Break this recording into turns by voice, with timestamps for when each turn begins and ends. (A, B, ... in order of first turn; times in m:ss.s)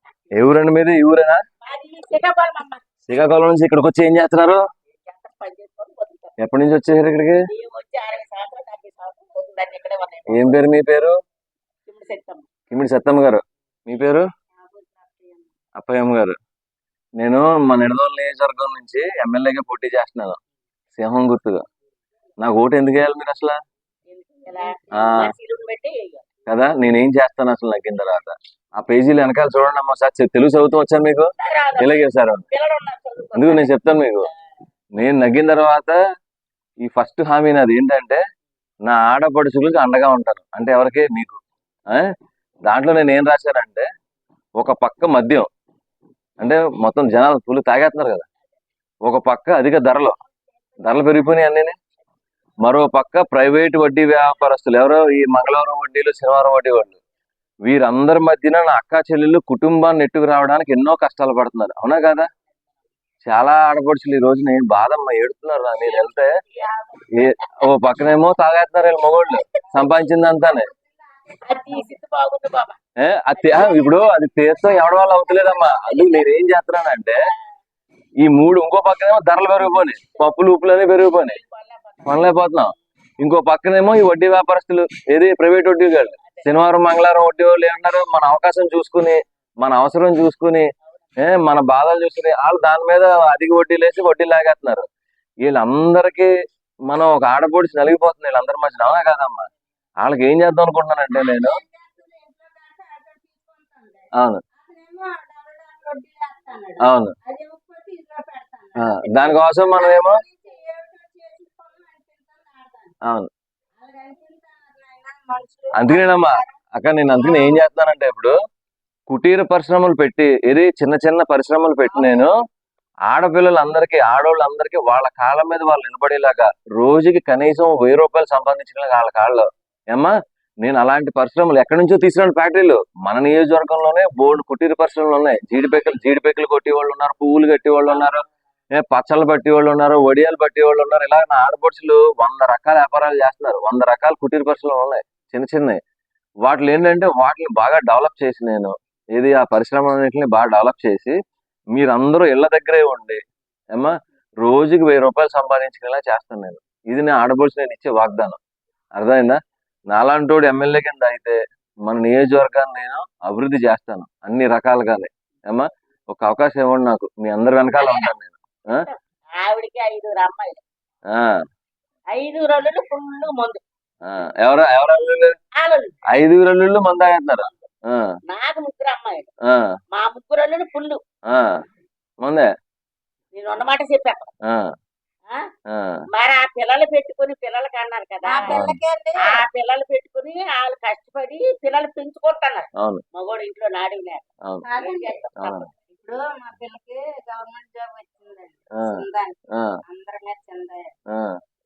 0:00.3-0:01.4 A
0:01.6-0:02.8 B
0:03.1-0:04.6 A
0:05.0-0:06.4 B
0:06.4-0:07.4 A
0:07.5-0:10.6 B
0:10.3-0:11.1 A
0:11.8-0:12.5 B
0:12.7-0:14.2 A
0:14.5-0:15.5 C
0:15.8-0:16.4 A
0:17.2-0:20.4 A
0:20.9-0:21.6 A
0:22.4-0:23.6 A
0:24.1-0:26.2 B
0:24.5-0:25.0 C
0:24.9-0:25.3 A
0:26.5-0:32.4 A
0:31.4-0:34.0 B
0:33.3-0:34.3 A
0:35.0-0:36.0 A
0:36.8-0:38.2 A
0:38.8-0:41.4 A
0:42.7-0:43.9 A
0:44.6-0:45.5 A
0:46.4-0:48.3 A
0:49.0-0:50.2 A
0:50.8-0:51.8 A
0:52.6-0:57.0 A
0:57.7-1:02.3 A
1:03.2-1:06.3 A
1:05.8-1:07.7 B
1:07.1-1:10.7 A
1:09.6-1:12.0 C
1:11.4-1:12.8 B
1:13.0-1:17.2 A
1:13.4-1:14.1 B
1:15.5-1:16.2 B
1:18.2-1:21.4 A
1:20.0-1:20.3 B
1:21.0-1:22.4 B
1:22.0-1:30.7 A
1:26.2-1:26.5 B
1:30.9-1:31.2 B
1:31.2-1:34.8 A
1:35.4-1:36.3 A
1:36.9-1:39.5 A
1:40.0-1:41.6 A
1:41.1-1:52.9 C
1:44.2-1:44.4 A
1:46.8-1:47.1 A
1:48.8-1:50.2 A
1:53.8-1:56.6 C
1:55.7-1:58.3 A
1:57.1-1:57.6 C
1:59.1-2:02.3 A
2:01.9-2:02.3 C
2:03.1-2:25.8 A
2:17.9-2:18.1 B
2:26.4-2:31.2 A
2:31.7-2:33.2 A
2:33.7-2:38.4 A
2:39.0-2:39.4 A
2:39.9-2:48.8 A
2:47.8-2:48.1 B
2:48.7-2:50.6 B
2:52.1-2:53.6 B
2:54.1-2:55.3 A
2:55.6-2:55.9 B
2:56.1-2:58.1 A
2:58.3-2:59.3 B
2:59.9-3:01.0 B
3:01.3-3:01.5 A
3:03.3-3:04.3 B
3:05.7-3:06.0 A
3:06.1-3:08.6 B
3:08.2-3:09.4 C
3:08.5-3:08.8 A
3:09.2-3:15.6 B
3:14.6-3:15.2 C
3:15.4-3:15.7 A
3:15.9-3:20.9 C
3:18.8-3:19.0 A